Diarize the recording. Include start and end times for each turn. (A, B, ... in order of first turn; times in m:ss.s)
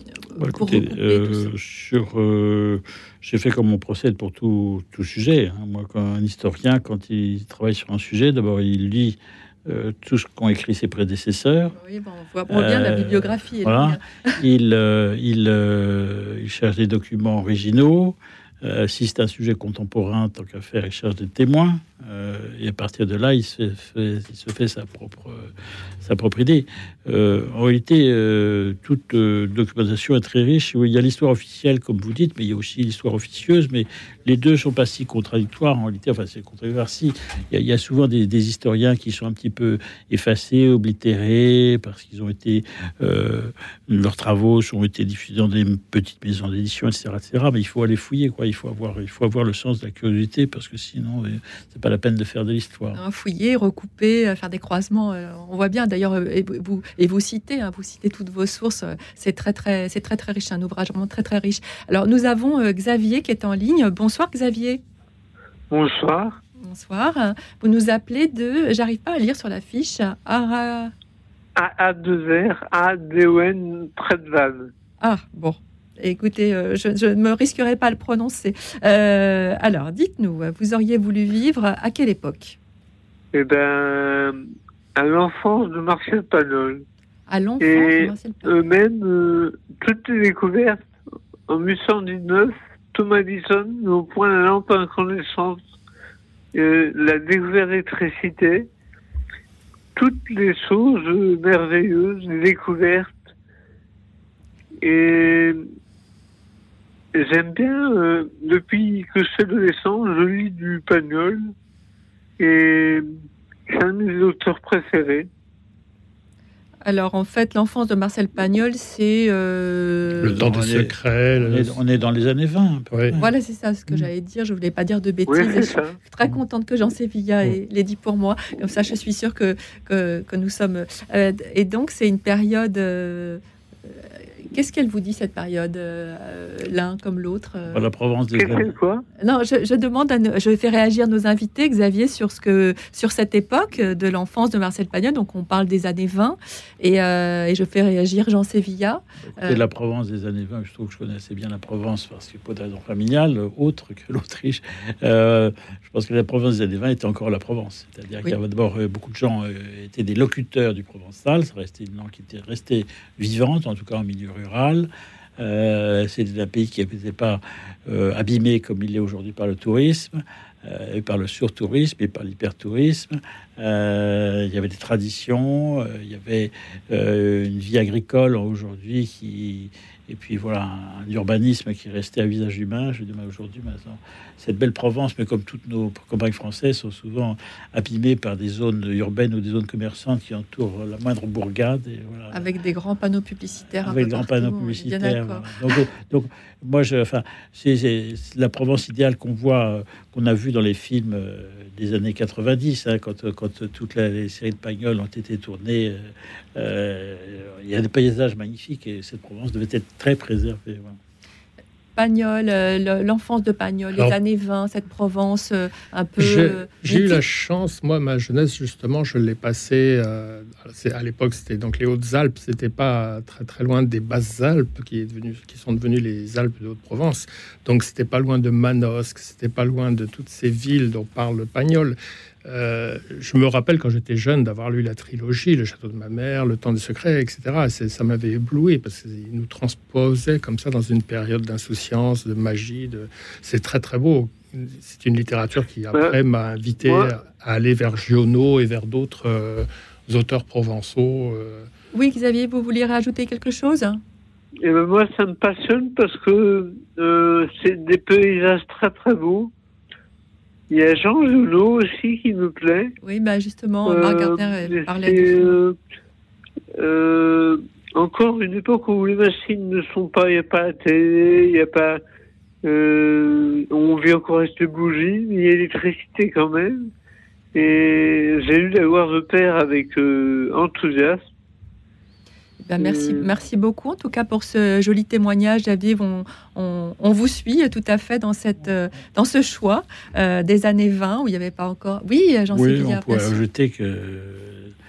0:00.3-0:01.5 A
0:00.4-0:11.8 B
0:11.8-0:14.4 A
0:12.5-0:53.0 B
0:52.9-1:04.8 A
1:05.7-1:06.4 C
1:06.6-1:10.9 A
1:11.6-1:14.7 C
1:15.0-1:22.6 A
1:23.4-1:24.4 C
1:25.0-1:26.8 C
1:27.3-1:28.6 A
1:27.6-1:30.9 C
1:31.5-1:35.6 C
1:36.6-1:38.6 C
1:40.0-1:43.2 C
1:44.8-1:45.6 C
1:47.2-1:51.5 C
1:52.4-1:53.1 C
1:53.7-1:55.3 C
1:56.8-2:00.4 A
2:00.2-2:01.8 D
2:00.2-2:03.2 B
2:02.9-2:03.2 D
2:03.2-2:13.4 A
2:05.3-2:06.0 C
2:14.5-2:17.9 A
2:17.7-2:18.8 B
2:18.3-2:19.0 C
2:19.2-2:29.6 A
2:29.3-3:12.5 B
3:12.3-3:15.9 A
3:13.8-3:31.0 B
3:32.0-3:37.2 A
3:36.2-4:11.7 D
4:06.9-4:07.1 C
4:11.9-4:14.0 A
4:14.6-4:19.5 C
4:20.7-4:22.9 C
4:23.0-4:25.6 A
4:23.9-4:25.8 C
4:26.8-4:32.0 C
4:32.6-4:36.9 C
4:37.6-4:41.2 C
4:42.6-4:53.4 A
4:42.8-4:43.3 C
4:52.5-4:54.7 B